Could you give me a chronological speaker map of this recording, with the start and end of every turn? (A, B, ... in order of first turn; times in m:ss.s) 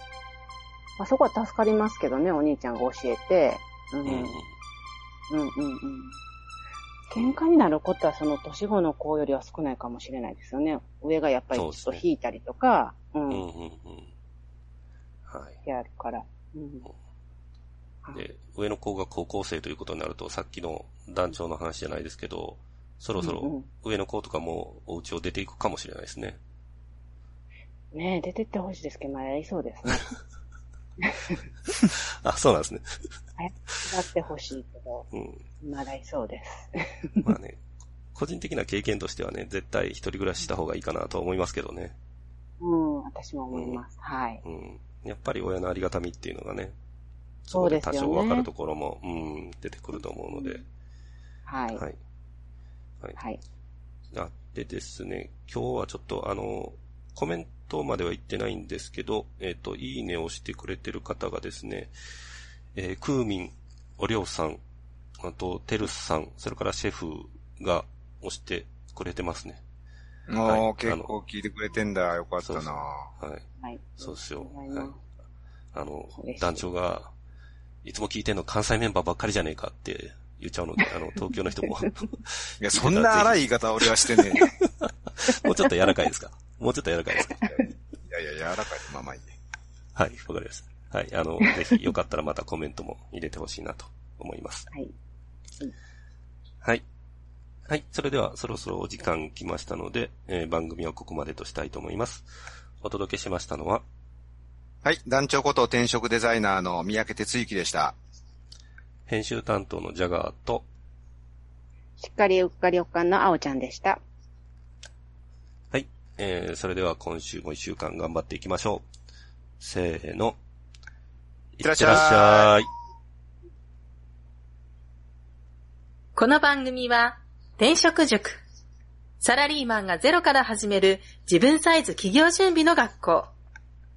0:01.0-0:04.4 A
0:04.0-0:04.5 B
0:05.3-0:06.2 A
0:07.1-0:13.4 A
0:11.5-0:12.0 B
0:13.3-0:14.1 B
0:15.2-0:15.6 B
0:15.6-0:16.9 A
0:18.1-0:26.4 B
0:23.2-0:23.7 A
0:27.9-0:30.1 A
0:31.0-0:31.4 A
0:31.7-0:33.9 B
0:33.4-0:35.1 A
0:35.1-0:35.4 B
0:35.6-0:37.3 A
0:37.2-0:37.6 B
0:38.1-0:42.0 B
0:42.6-0:44.4 A
0:43.5-0:43.8 B
0:44.4-0:46.7 B
0:47.4-0:50.6 B
0:47.5-0:48.5 A
0:50.3-0:50.6 A
0:51.5-0:51.8 A
0:54.1-1:01.9 B
1:02.7-1:04.6 B
1:05.2-1:09.6 B
1:10.3-1:13.1 C
1:10.4-1:11.1 B
1:12.4-1:13.4 B
1:13.6-1:15.0 A
1:14.0-1:14.9 B
1:15.7-1:17.1 B
1:16.2-1:16.6 A
1:17.8-1:27.6 B
1:22.6-1:24.6 C
1:28.1-1:29.4 C
1:29.9-1:34.7 B
1:37.7-1:42.3 B
1:42.8-1:43.8 B
1:44.8-1:48.0 C
1:49.1-1:50.6 B
1:52.0-1:54.0 A
1:55.7-1:58.8 B
1:59.6-2:00.4 B
2:01.6-2:02.7 B
2:01.6-2:02.6 C
2:06.1-2:08.4 D
2:09.2-2:13.3 D